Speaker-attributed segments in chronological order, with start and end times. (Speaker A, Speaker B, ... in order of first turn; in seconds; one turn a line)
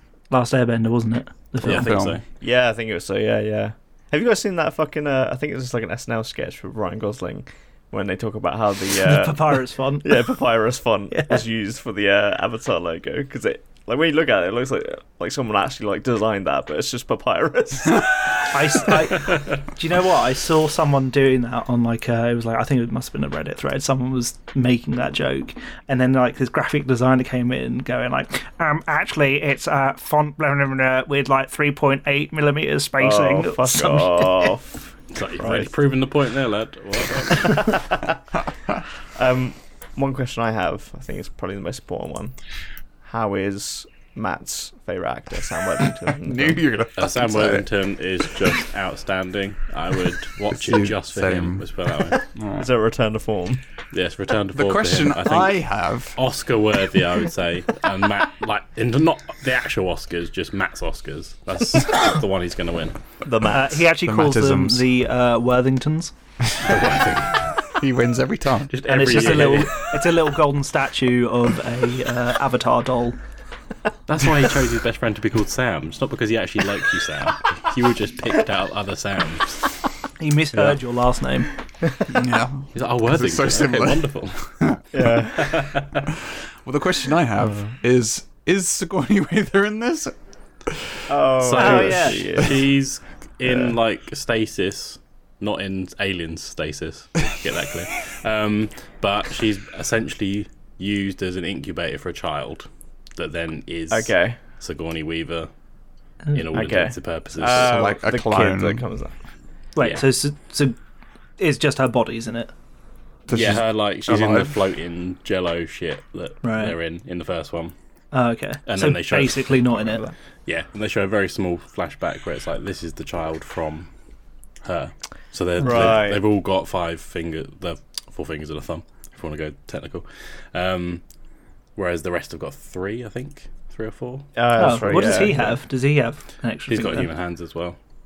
Speaker A: 0.3-2.0
Speaker B: 1.6-2.2
Speaker C: 1.6-2.2
Speaker D: 2.4-18.5
Speaker A: 9.0-10.2
Speaker A: 11.1-11.4
Speaker A: 18.5-34.5
Speaker D: 33.0-35.7
Speaker B: 35.1-37.8
Speaker D: 37.4-38.1
Speaker D: 39.1-42.4
Speaker D: 43.0-46.7
Speaker C: 46.2-47.7
Speaker B: 47.0-52.2
Speaker C: 50.5-51.7
Speaker C: 52.2-52.7
Speaker D: 52.6-53.6
Speaker B: 53.9-63.0
Speaker C: 54.5-56.2
Speaker D: 63.2-63.8
Speaker A: 63.5-66.1
Speaker C: 64.0-64.9
Speaker C: 66.5-67.1
Speaker B: 66.6-67.5
Speaker C: 67.8-69.5
Speaker B: 68.7-69.8
Speaker A: 68.9-73.2
Speaker B: 74.1-79.6
Speaker A: 80.2-81.5
Speaker B: 80.5-80.8
Speaker C: 82.1-84.8
Speaker B: 82.7-84.6
Speaker D: 84.9-85.7
Speaker B: 85.4-86.1
Speaker C: 86.3-90.1
Speaker C: 90.7-91.0
Speaker D: 91.1-92.7
Speaker B: 91.4-105.5
Speaker A: 91.5-92.3
Speaker D: 93.4-93.7
Speaker D: 103.9-104.4
Speaker B: 106.3-107.8
Speaker D: 106.5-109.1
Speaker C: 107.5-108.9
Speaker A: 109.8-110.8
Speaker B: 109.8-110.0
Speaker A: 111.4-112.5
Speaker C: 113.3-114.5
Speaker B: 113.3-117.7
Speaker A: 116.4-116.8
Speaker A: 118.1-120.0
Speaker B: 118.7-119.6
Speaker D: 119.9-120.1
Speaker B: 120.5-123.9
Speaker B: 124.6-131.1
Speaker D: 125.6-126.2
Speaker A: 125.6-126.0
Speaker B: 131.8-135.2
Speaker D: 134.3-135.6
Speaker A: 134.6-137.1
Speaker B: 136.7-137.8